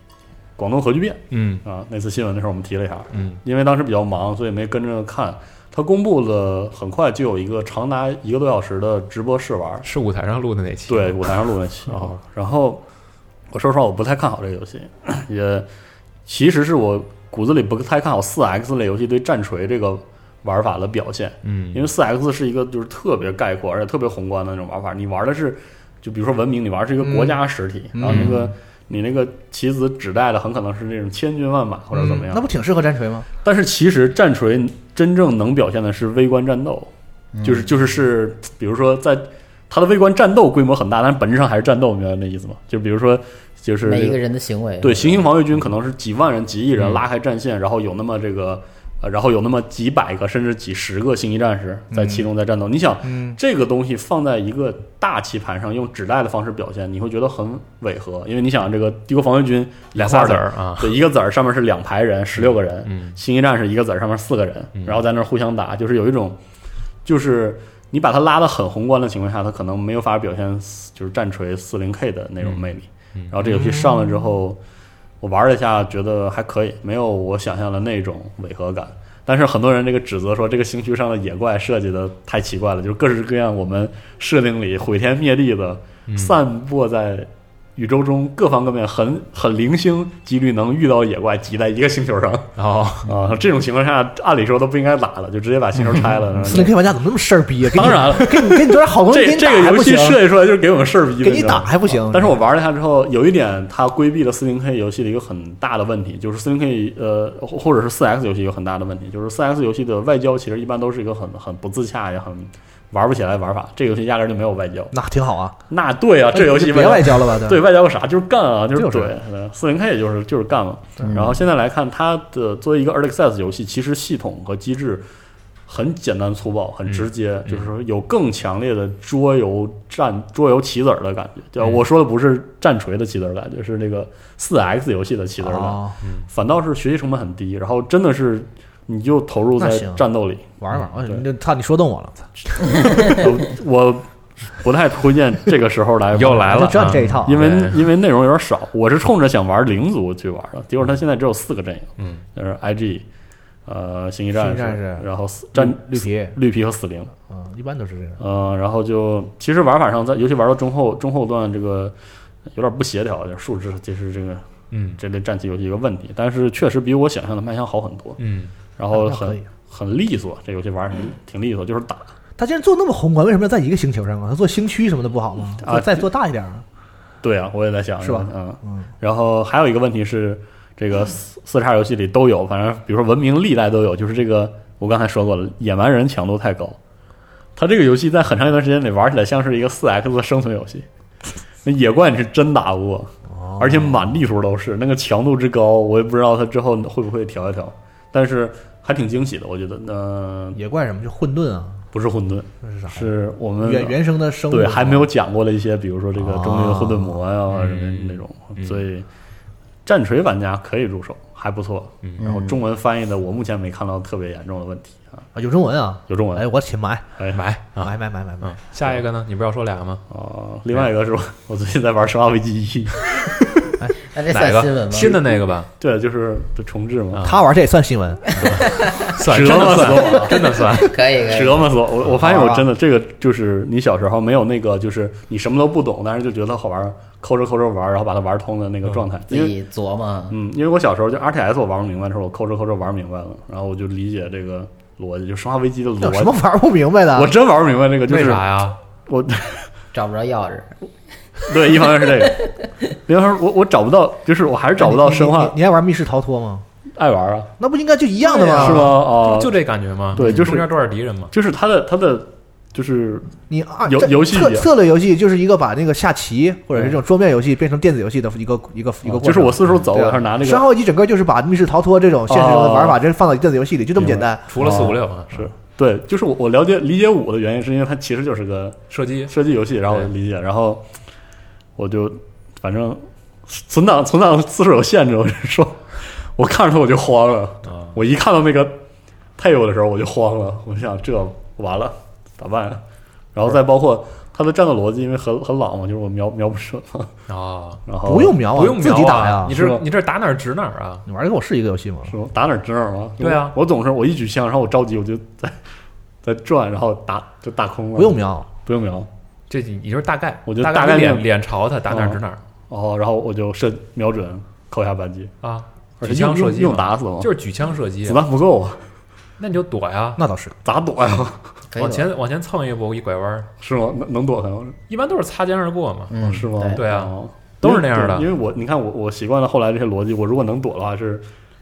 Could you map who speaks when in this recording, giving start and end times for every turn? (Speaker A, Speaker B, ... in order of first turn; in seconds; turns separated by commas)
Speaker A: 0.6-9.9, Speaker B: 1.3-1.6, Speaker B: 3.1-3.4, Speaker B: 9.8-11.2, Speaker A: 10.9-12.8, Speaker B: 11.9-12.1, Speaker A: 13.5-15.7, Speaker A: 16.3-32.5, Speaker B: 21.4-21.9, Speaker C: 27.0-27.4, Speaker C: 27.9-28.4, Speaker B: 28.1-28.4, Speaker C: 31.9-33.3, Speaker A: 33.4-36.9, Speaker D: 37.3-37.7, Speaker A: 37.4-44.2, Speaker D: 43.8-45.3, Speaker A: 44.8-66.4, Speaker B: 46.8-47.0, Speaker C: 51.9-52.3, Speaker C: 53.0-53.4, Speaker B: 59.9-60.9, Speaker B: 62.4-63.2, Speaker B: 64.8-65.0, Speaker A: 67.0-74.6, Speaker C: 73.4-74.3, Speaker A: 75.2-92.5, Speaker B: 86.1-86.3, Speaker B: 92.5-93.1, Speaker A: 93.0-96.7, Speaker C: 96.4-100.2, Speaker A: 97.7-114.9, Speaker C: 101.2-102.4, Speaker C: 114.9-115.5, Speaker A: 115.7-125.0, Speaker C: 116.3-117.6, Speaker C: 118.7-119.1, Speaker D: 121.0-121.4, Speaker A: 125.7-140.5, Speaker B: 126.9-127.7, Speaker C: 135.4-135.9, Speaker B: 136.0-136.3, Speaker C: 139.6-140.0, Speaker C: 140.6-142.3, Speaker A: 142.5-153.0, Speaker B: 146.1-147.8, Speaker C: 146.4-147.4, Speaker B: 152.0-152.2, Speaker A: 153.7-157.1, Speaker C: 154.3-156.4, Speaker C: 157.3-158.2, Speaker A: 158.2-161.9, Speaker A: 162.5-164.4, Speaker B: 164.7-165.0, Speaker A: 164.9-168.2, Speaker B: 168.2-168.5, Speaker A: 168.8-172.1, Speaker C: 168.9-169.4, Speaker C: 172.4-176.6, Speaker A: 175.6-176.1, Speaker A: 177.2-186.8, Speaker C: 178.0-178.9, Speaker A: 187.6-190.8, Speaker A: 191.6-200.6, Speaker C: 193.3-194.2, Speaker C: 200.5-201.8, Speaker A: 201.9-209.1, Speaker C: 202.6-205.1, Speaker C: 206.2-207.2, Speaker B: 207.5-208.8, Speaker A: 209.8-215.3, Speaker D: 212.2-212.6, Speaker C: 215.3-217.1, Speaker A: 216.1-216.5, Speaker A: 217.2-217.4, Speaker B: 217.3-220.0, Speaker C: 217.8-218.6, Speaker A: 220.1-223.2, Speaker D: 224.1-225.3, Speaker B: 224.3-225.7, Speaker A: 225.8-227.3, Speaker B: 227.1-227.4, Speaker C: 227.2-228.4, Speaker B: 228.3-231.0, Speaker D: 228.4-229.1, Speaker A: 229.1-230.5, Speaker D: 229.7-231.6, Speaker A: 231.2-239.5, Speaker C: 232.1-232.7, Speaker D: 239.3-240.3, Speaker A: 240.3-246.4, Speaker C: 246.0-247.3, Speaker A: 247.1-249.7, Speaker B: 248.1-248.8, Speaker D: 249.9-250.7, Speaker A: 251.4-252.4, Speaker D: 251.5-252.7, Speaker A: 253.1-255.6, Speaker C: 254.8-256.6, Speaker A: 256.9-257.5, Speaker C: 257.6-259.0, Speaker B: 258.3-261.3, Speaker A: 258.5-259.5, Speaker A: 260.1-260.7, Speaker A: 261.3-263.3, Speaker C: 263.5-274.8, Speaker A: 263.8-264.7, Speaker A: 269.2-270.6, Speaker A: 272.3-273.0, Speaker A: 273.9-280.8, Speaker B: 274.5-275.5, Speaker B: 278.9-279.3, Speaker A: 281.8-288.8, Speaker B: 287.6-288.0, Speaker A: 289.4-292.8, Speaker A: 293.3-297.1, Speaker B: 297.3-297.8, Speaker A: 297.9-298.4, Speaker C: 298.0-299.6, Speaker B: 298.5-301.1, Speaker A: 299.5-299.8, Speaker C: 301.1-302.1, Speaker A: 302.1-305.6, Speaker B: 303.2-303.6, Speaker A: 306.2-309.1, Speaker C: 307.9-308.5, Speaker B: 309.5-312.4, Speaker A: 310.5-311.3, Speaker A: 311.9-315.3, Speaker B: 315.4-318.2, Speaker A: 316.0-317.3, Speaker A: 318.0-318.8, Speaker B: 319.4-320.2, Speaker C: 320.2-320.6, Speaker A: 320.6-321.4, Speaker D: 321.7-322.1, Speaker B: 321.8-323.5, Speaker A: 323.6-324.8, Speaker B: 324.9-326.2, Speaker D: 326.1-326.8, Speaker A: 326.2-331.2, Speaker B: 326.7-328.3